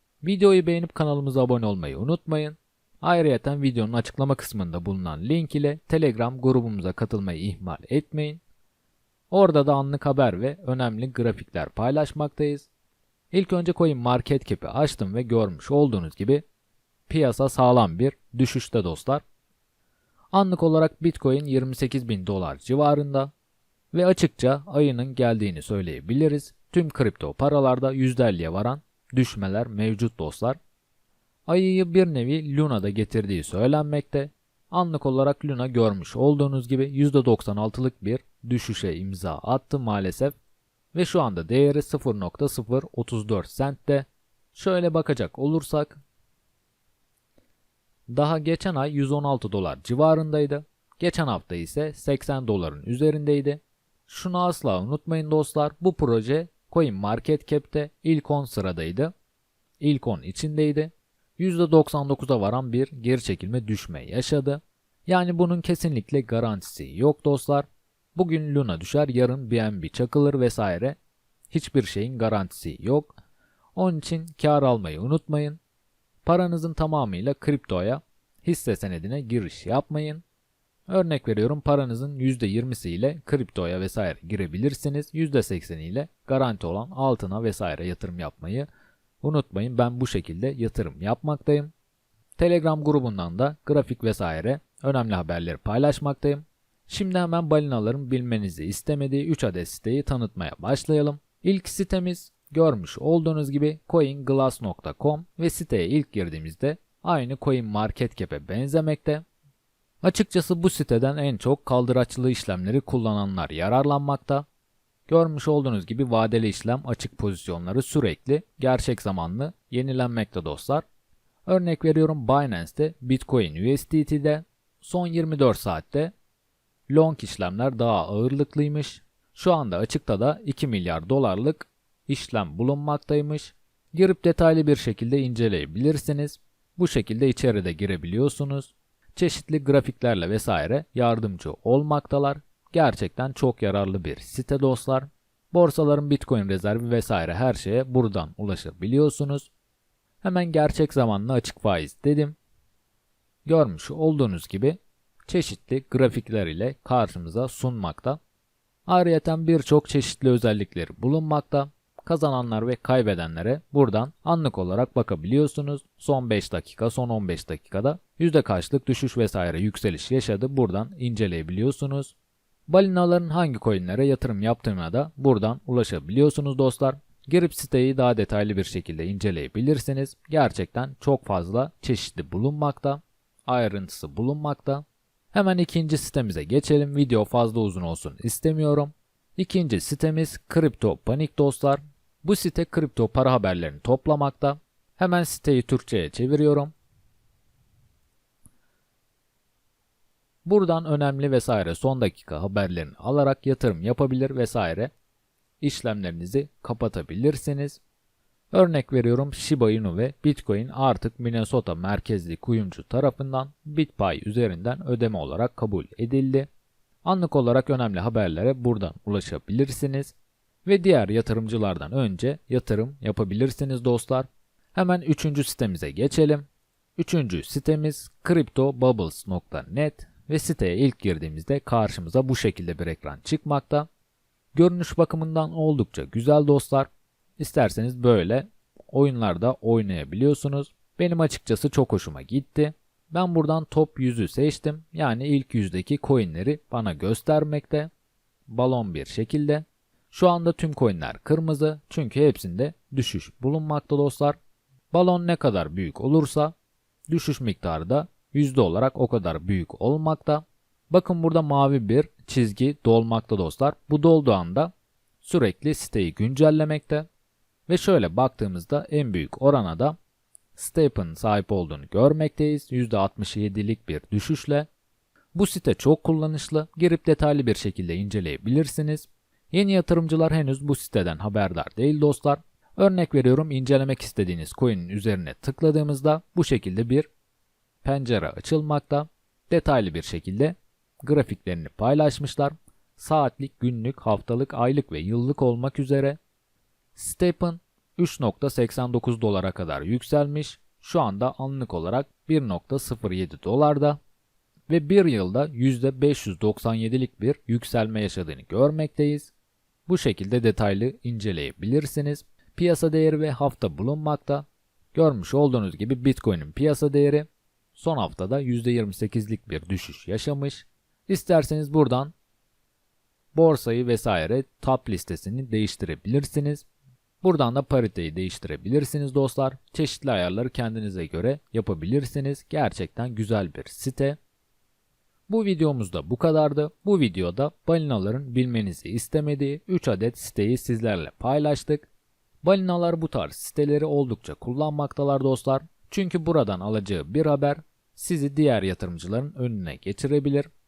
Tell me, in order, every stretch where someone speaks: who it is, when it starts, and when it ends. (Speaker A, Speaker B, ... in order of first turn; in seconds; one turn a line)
Speaker A: 0.2-8.4
Speaker A: 9.3-12.7
Speaker A: 13.3-16.4
Speaker A: 17.1-19.2
Speaker A: 20.3-23.3
Speaker A: 23.9-30.6
Speaker A: 31.5-40.4
Speaker A: 40.9-46.0
Speaker A: 48.1-59.1
Speaker A: 59.8-71.0
Speaker A: 71.5-73.2
Speaker A: 73.7-75.6
Speaker A: 76.2-80.2
Speaker A: 80.9-88.7
Speaker A: 89.2-91.7
Speaker A: 92.4-109.2
Speaker A: 110.0-114.4
Speaker A: 115.1-120.8
Speaker A: 121.5-126.1
Speaker A: 126.9-149.5
Speaker A: 150.2-152.3
Speaker A: 153.4-158.2
Speaker A: 158.8-172.2
Speaker A: 172.7-196.7
Speaker A: 200.4-204.9
Speaker A: 205.6-207.8
Speaker A: 208.5-216.5
Speaker A: 217.0-226.4
Speaker A: 227.0-233.9
Speaker A: 234.5-247.9
Speaker A: 248.5-254.4
Speaker A: 254.9-256.5
Speaker A: 257.1-267.1
Speaker A: 267.7-269.9
Speaker A: 270.5-274.7
Speaker A: 275.3-287.1
Speaker A: 287.8-296.2
Speaker A: 296.9-304.0
Speaker A: 304.7-309.3
Speaker A: 309.9-322.1
Speaker A: 323.3-326.6
Speaker A: 327.2-334.2
Speaker A: 335.3-341.9
Speaker A: 342.4-350.5